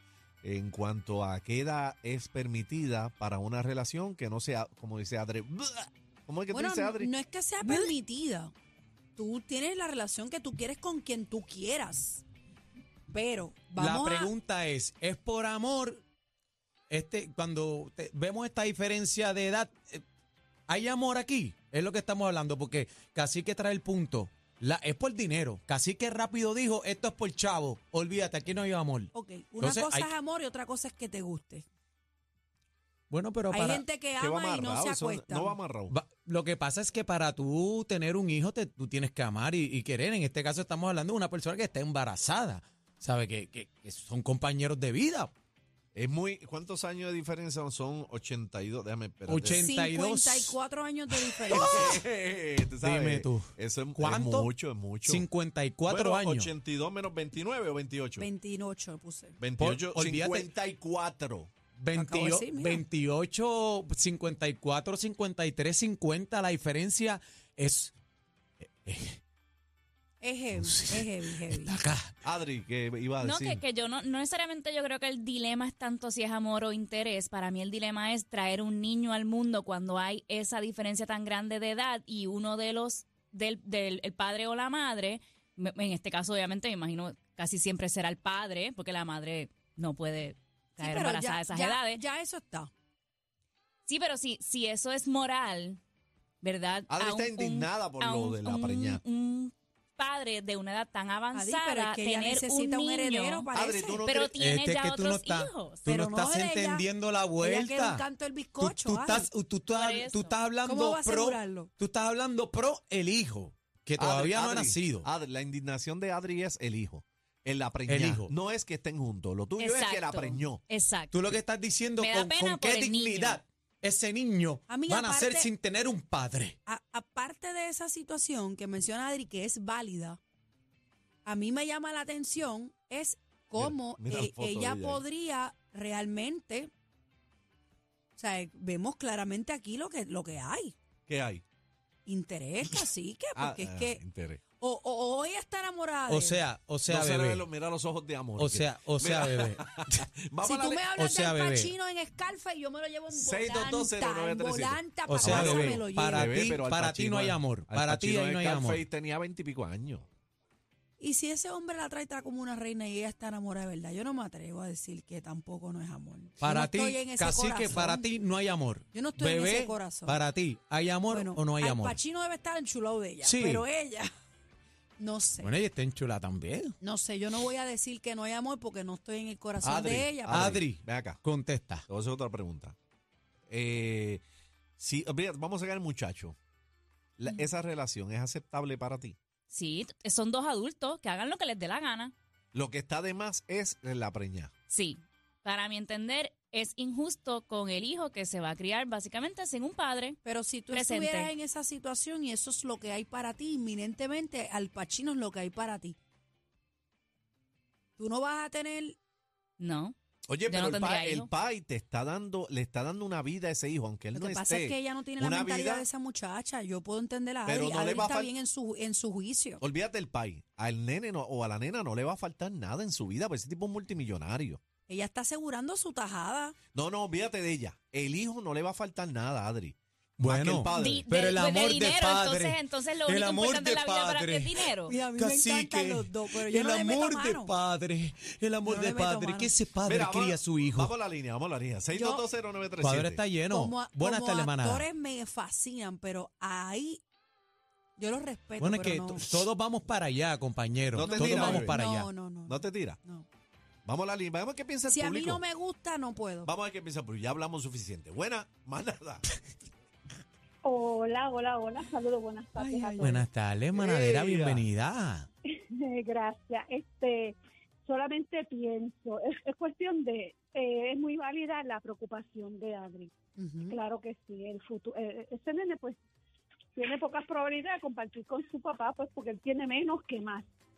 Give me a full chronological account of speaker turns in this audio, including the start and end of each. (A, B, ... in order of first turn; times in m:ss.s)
0:00.4-0:07.1 A
0:06.5-0:08.5 B
0:09.2-0:12.2 B
0:13.1-0:14.3 B
0:13.8-0:16.0 C
0:16.9-0:20.0 C
0:20.7-0:30.1 C
0:29.1-0:31.6 B
0:33.1-0:33.8 C
0:33.5-0:35.6 B
0:34.2-0:36.0 A
0:35.9-0:45.3 C
0:45.9-0:49.7 A
0:49.3-0:50.6 C
0:49.5-0:52.0 B
0:51.2-0:55.2 A
0:51.5-0:51.9 C
0:52.8-0:54.5 C
0:55.0-0:56.5 C
0:55.9-0:58.3 A
0:58.2-0:59.4 B
0:59.4-1:01.5 A
0:59.6-1:00.5 C
1:01.8-1:07.9 C
1:01.9-1:02.8 B
1:08.6-1:09.2 C
1:10.2-1:11.7 B
1:10.5-1:12.1 C
1:12.2-1:13.6 A
1:13.2-1:32.0 D
1:30.8-1:32.7 B
1:33.9-1:35.8 D
1:36.4-1:43.5 D
1:36.9-1:39.0 A
1:41.3-1:44.0 B
1:43.5-1:44.3 A
1:44.0-1:45.8 D
1:44.4-1:48.1 C
1:45.8-1:49.3 B
1:48.6-1:55.0 C
1:49.7-1:50.4 D
1:50.6-1:51.7 B
1:54.0-2:00.6 A
1:57.9-1:58.3 C
1:59.6-2:01.1 D
2:01.1-2:06.6 C
2:02.0-2:03.4 D
2:04.7-2:05.5 B
2:06.6-2:10.2 B
2:11.2-2:16.7 B
2:13.6-2:15.0 A
2:18.2-2:20.7 B
2:21.1-2:21.4 A
2:22.0-2:24.0 B
2:23.4-2:24.4 A
2:24.6-2:26.4 B
2:26.1-2:27.4 C
2:26.9-2:30.9 A
2:28.4-2:29.6 C
2:30.4-2:36.5 B
2:30.9-2:31.7 C
2:33.1-2:40.0 A
2:35.1-2:38.8 C
2:41.0-2:48.1 B
2:46.4-2:52.0 C
2:48.9-2:50.2 B
2:51.1-2:54.1 B
2:53.2-2:53.6 C
2:55.0-2:55.5 B
2:55.4-2:56.8 C
2:56.8-3:00.4 B
2:59.6-3:01.2 A
3:00.3-3:01.8 C
3:01.9-3:02.8 A
3:03.5-3:04.2 A
3:04.8-3:06.4 A
3:07.2-3:09.2 A
3:09.5-3:12.1 D
3:12.5-3:14.5 A
3:14.7-3:20.2 D
3:20.2-3:26.0 B
3:20.7-3:21.3 D
3:28.0-3:29.0 B
3:29.6-3:29.9 D
3:30.3-3:35.8 A
3:30.5-3:31.3 D
3:34.1-3:39.6 B
3:37.4-3:38.3 A
3:39.6-3:44.6 A
3:44.9-3:46.6 B
3:46.7-3:51.1 A
3:50.2-4:00.9 C
3:50.7-3:55.0 D
3:54.9-3:57.5 B
3:58.6-3:59.5 B
3:59.8-4:03.2 A
4:01.9-4:02.2 B
4:02.8-4:04.9 C
4:03.5-4:07.0 B
4:08.0-4:09.4 B
4:08.6-4:12.1 C
4:10.9-4:11.8 A
4:11.0-4:13.2 B
4:12.4-4:13.0 A
4:13.8-4:15.4 A
4:14.9-4:16.5 B
4:16.4-4:19.2 A
4:20.6-4:23.2 E
4:22.6-4:23.1 B
4:23.0-4:25.3 C
4:23.7-4:24.6 A
4:25.6-4:36.0 E
4:33.4-4:33.8 B
4:36.7-4:40.5 E